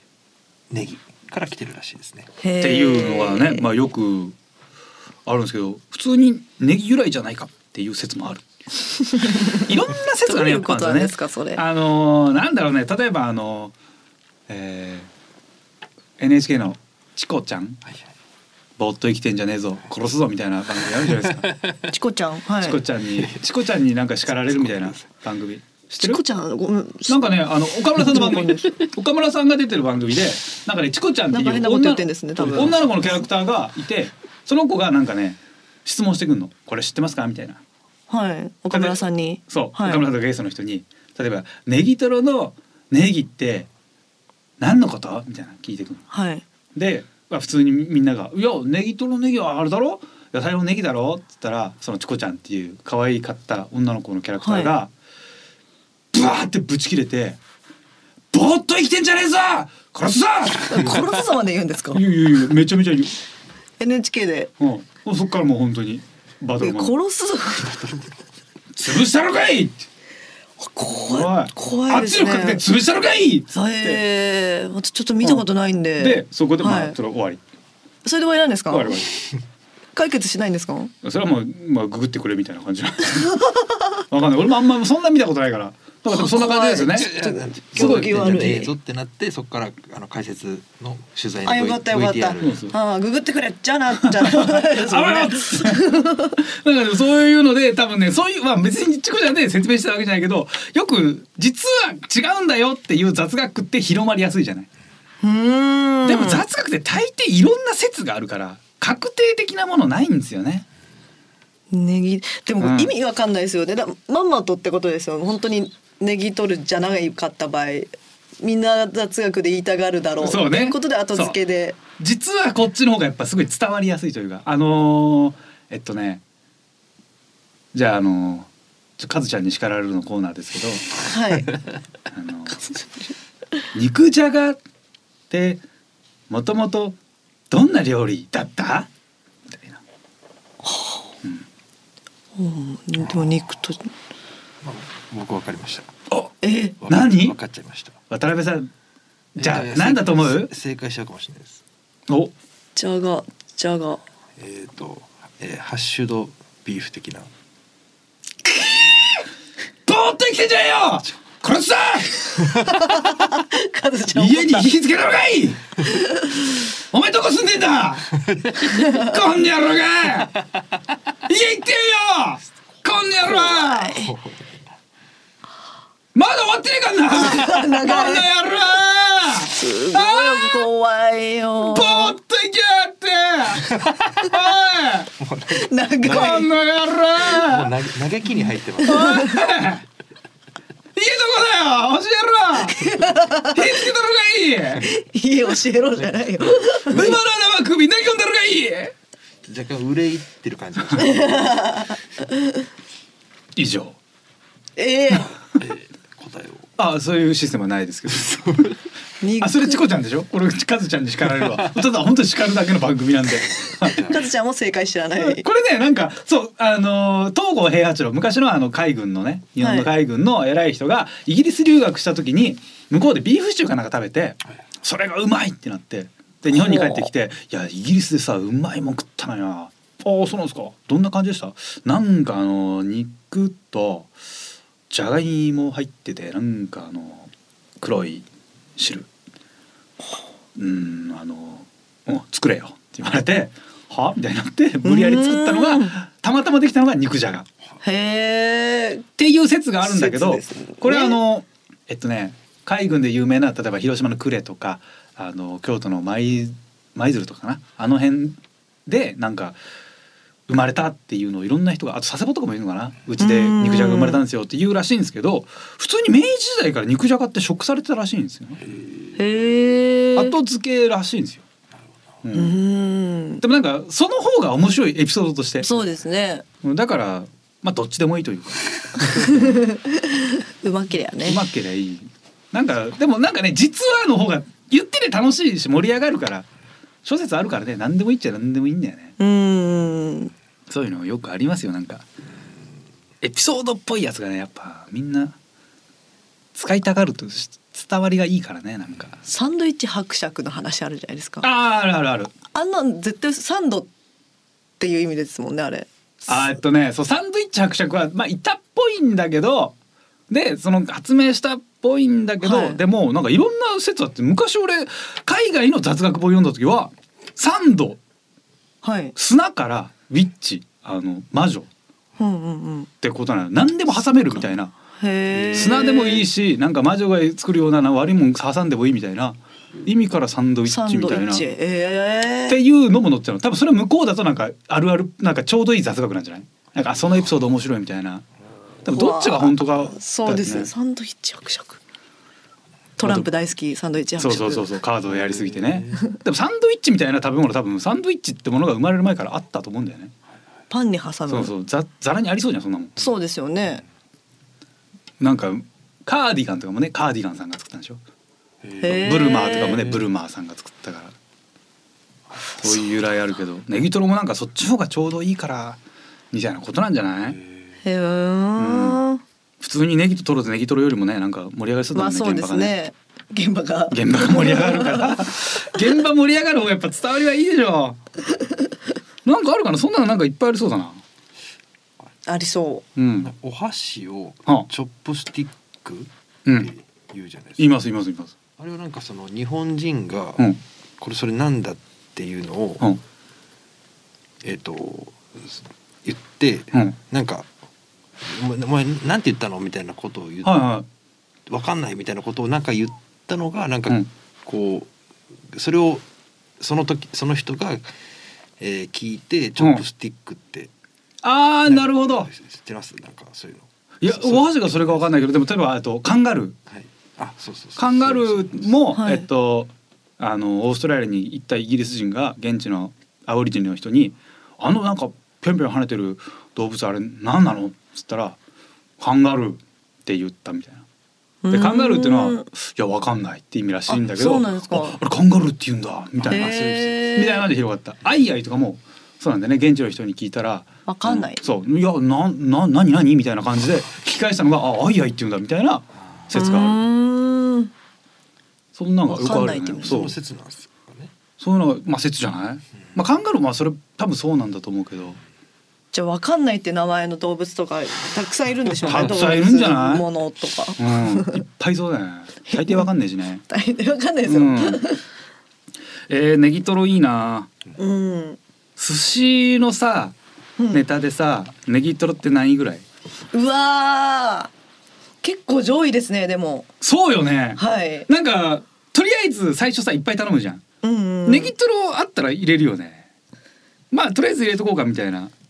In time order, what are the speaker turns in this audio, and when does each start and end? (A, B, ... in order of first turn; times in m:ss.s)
0:00.7-0:02.3 A
0:02.4-0:03.6 B
0:02.6-0:04.3 C
0:05.2-0:08.4 C
0:09.1-0:09.6 B
0:09.2-0:13.7 C
0:10.2-0:11.6 B
0:14.5-0:15.1 C
0:16.2-0:17.8 C
0:18.8-0:21.5 C
0:21.2-0:21.8 A
0:21.9-0:22.8 B
0:22.6-0:26.2 C
0:24.5-0:25.0 A
0:26.0-0:27.2 B
0:27.1-0:37.6 C
0:28.0-0:28.7 B
0:31.3-0:33.2 B
0:38.1-0:40.0 B
0:38.7-0:43.7 C
0:44.6-0:46.0 C
0:46.1-0:46.4 B
0:46.7-0:54.9 C
0:54.4-0:54.7 B
0:56.1-0:57.4 C
0:58.3-1:01.2 C
1:00.7-1:02.0 B
1:01.9-1:03.2 C
1:03.8-1:04.5 B
1:04.6-1:07.0 C
1:06.6-1:07.9 B
1:07.7-1:08.1 A
1:08.7-1:09.8 C
1:10.6-1:12.6 B
1:11.1-1:14.0 C
1:13.5-1:17.0 B
1:16.0-1:17.4 C
1:18.0-1:19.0 B
1:18.7-1:19.1 C
1:19.9-1:20.9 B
1:21.0-1:23.4 C
1:24.1-1:27.1 C
1:26.1-1:28.7 B
1:26.8-1:32.6 A
1:27.7-1:28.5 C
1:31.4-1:36.4 B
1:32.4-1:32.7 C
1:34.0-1:44.7 C
1:45.2-1:46.4 B
1:46.0-1:50.6 C
1:51.7-2:01.8 B
1:52.6-1:52.9 C
2:00.2-2:01.4 C
2:02.0-2:06.2 C
2:07.7-2:08.5 C
2:09.0-2:11.0 C
2:11.0-2:11.5 B
2:12.1-2:12.6 C
2:13.7-2:14.6 C
2:15.3-2:15.6 C
2:16.3-2:17.0 C
2:17.5-2:18.9 C
2:19.5-2:19.8 C
2:20.6-2:21.1 B
2:22.4-2:23.9 B
2:24.6-2:25.9 A
2:26.1-2:27.4 C
2:26.4-2:26.8 B
2:26.8-2:28.0 A
2:28.1-2:28.7 C
2:29.4-2:30.5 C
2:29.4-2:31.6 A
2:32.8-2:34.0 B
2:34.4-2:37.3 A
2:38.4-2:39.2 C
2:39.8-2:43.0 C
2:42.6-2:44.7 B
2:44.1-2:45.8 C
2:45.8-2:46.4 B
2:46.9-2:48.2 C
2:48.6-2:49.2 B
2:48.7-2:50.4 C
2:51.2-2:54.0 C
2:53.2-2:54.1 B
2:56.1-3:00.6 C
2:57.1-2:58.3 B
2:59.5-3:02.2 B
3:01.6-3:05.1 C
3:05.2-3:05.6 A
3:05.5-3:06.5 B
3:06.0-3:07.7 C
3:07.2-3:09.2 A
3:08.8-3:09.6 B
3:08.8-3:09.8 C
3:10.9-3:14.8 C
3:12.7-3:13.8 B
3:14.8-3:17.2 B
3:16.8-3:18.9 C
3:19.4-3:21.5 A
3:21.0-3:22.0 B
3:23.6-3:24.0 C
3:24.8-3:25.3 B
3:25.6-3:26.7 A
3:26.8-3:28.8 C
3:29.2-3:29.8 B
3:29.4-3:34.1 C
3:33.9-3:35.4 B
3:35.2-3:54.1 C
3:39.6-3:39.9 B
3:46.5-3:47.1 B
3:54.9-3:58.2 C
3:58.8-3:59.1 C
4:00.6-4:07.5 C
4:04.8-4:06.0 B
4:07.8-4:09.0 B
4:09.2-4:19.6 C
4:09.8-4:11.2 B
4:20.5-4:28.6 C
4:23.2-4:24.2 B
4:28.7-4:29.1 A
4:29.2-4:30.3 B
4:30.2-4:31.4 C
4:32.2-4:32.6 C
4:32.3-4:33.4 B
4:33.4-4:35.7 C
4:35.6-4:36.4 B
4:36.6-4:39.5 C
4:39.1-4:41.4 B
4:41.2-4:46.4 C
4:47.0-4:49.1 C
4:49.2-4:50.3 B
4:50.7-4:52.0 C
4:53.2-4:55.4 C
4:56.5-4:59.2 C
4:59.2-5:01.5 B
5:01.4-5:02.3 C
5:02.5-5:03.9 B
5:04.8-5:06.5 B
5:06.3-5:09.7 C
5:10.3-5:18.0 C
5:12.4-5:12.8 B
5:18.8-5:19.1 B
5:19.2-5:21.7 C
5:22.2-5:22.9 B
5:23.0-5:24.7 C
5:25.0-5:26.2 B
5:25.4-5:25.8 A
5:25.5-5:31.4 C
5:30.6-5:32.6 B
5:32.5-5:38.2 C
5:38.8-5:40.7 C
5:38.9-5:41.8 B
5:43.0-5:44.7 B
5:43.0-5:43.3 C
5:44.2-5:50.1 C
5:45.1-5:45.9 A
5:50.7-5:51.5 B
5:51.3-5:53.0 C
5:53.0-5:53.8 B
5:55.2-5:58.0 C
5:58.6-5:58.9 A
5:58.8-5:59.9 B
5:58.8-6:01.1 C
5:59.6-6:00.0 A
6:02.6-6:05.8 C
6:06.3-6:07.4 C
6:07.3-6:07.8 A
6:07.8-6:09.2 B
6:08.6-6:09.0 C
6:09.6-6:12.8 C
6:11.9-6:15.8 B
6:13.9-6:18.0 C
6:19.2-6:21.0 C
6:22.2-6:22.8 B
6:23.0-6:23.3 C
6:23.2-6:27.7 A
6:26.4-6:26.7 C
6:27.6-6:28.3 C
6:28.6-6:30.4 A
6:31.0-6:32.8 A
6:34.4-6:37.5 A
6:38.2-6:40.6 A
6:40.4-6:40.8 C
6:41.5-6:44.9 A
6:45.5-6:46.0 A
6:46.6-6:48.0 A
6:48.6-6:50.7 A
6:51.2-6:52.3 C
6:51.6-6:55.3 A
6:54.0-6:56.6 C
6:56.7-6:58.7 A
6:57.8-7:08.4 C
6:58.9-6:59.2 B
7:09.0-7:10.8 C
7:11.4-7:12.4 B
7:11.5-7:26.8 C
7:13.9-7:15.0 B
7:16.2-7:16.8 A
7:16.3-7:17.5 B
7:20.8-7:21.4 B
7:26.3-7:27.7 B
7:28.7-7:30.2 C
7:29.1-7:30.0 B
7:29.2-7:31.1 A
7:31.4-7:35.2 C
7:35.9-7:41.4 B
7:38.8-7:40.1 C
7:40.8-7:43.4 C
7:42.5-7:42.8 B
7:43.5-7:45.0 B
7:44.2-7:44.8 C
7:46.1-7:47.5 C
7:47.8-7:48.4 B
7:48.8-7:50.1 C
7:50.7-7:52.8 C
7:53.3-7:54.5 B
7:55.2-7:56.7 B
7:56.8-8:00.6 C
7:57.6-7:58.1 B
8:00.8-8:01.5 B
8:01.2-8:03.0 C
8:03.9-8:05.3 C